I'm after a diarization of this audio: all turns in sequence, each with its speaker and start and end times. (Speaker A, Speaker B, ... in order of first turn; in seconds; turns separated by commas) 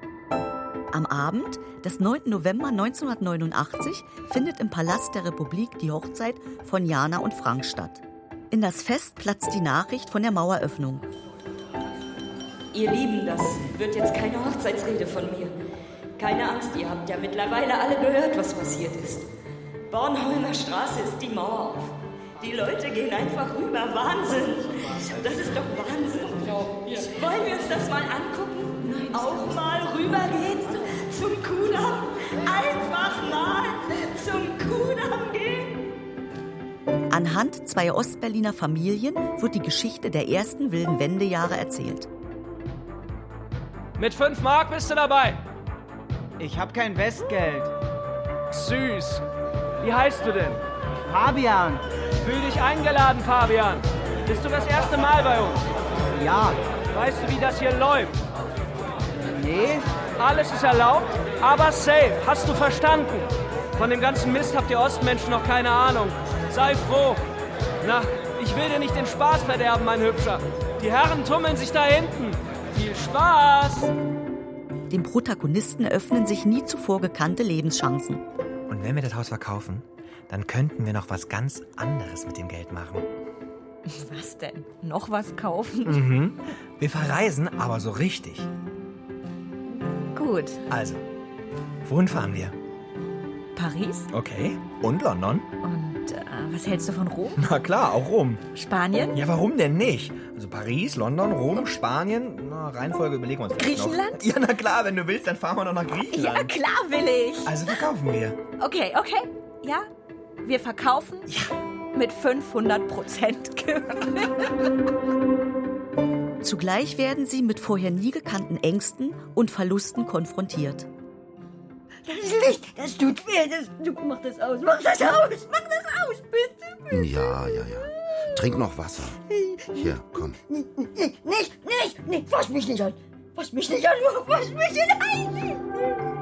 Speaker A: 0.9-11.0, Speaker B: 12.7-15.5, Speaker B: 16.2-19.3, Speaker B: 19.9-35.9, Speaker A: 37.1-42.1, Speaker C: 44.0-45.4, Speaker D: 46.4-47.7, Speaker C: 48.5-49.2, Speaker C: 49.8-50.6, Speaker D: 51.1-51.8, Speaker C: 52.2-55.6, Speaker D: 56.1-56.6, Speaker C: 56.9-58.1, Speaker D: 59.2-59.9, Speaker C: 60.2-67.2, Speaker C: 67.8-73.9, Speaker A: 74.9-78.2, Speaker E: 78.7-83.1, Speaker F: 83.9-86.0, Speaker E: 85.8-88.5, Speaker F: 90.1-90.6, Speaker E: 90.7-91.0, Speaker E: 91.8-92.5, Speaker F: 93.5-94.1, Speaker E: 94.1-95.5, Speaker F: 95.6-97.4, Speaker E: 97.4-98.4, Speaker F: 98.5-99.2, Speaker E: 99.1-106.5, Speaker F: 103.6-104.2, Speaker F: 106.1-107.8, Speaker E: 107.5-108.4, Speaker F: 108.6-109.8, Speaker F: 110.4-111.3, Speaker F: 111.9-114.6, Speaker A: 116.4-120.9, Speaker G: 122.0-127.1, Speaker H: 126.9-129.2, Speaker G: 129.3-135.7, Speaker H: 129.8-130.4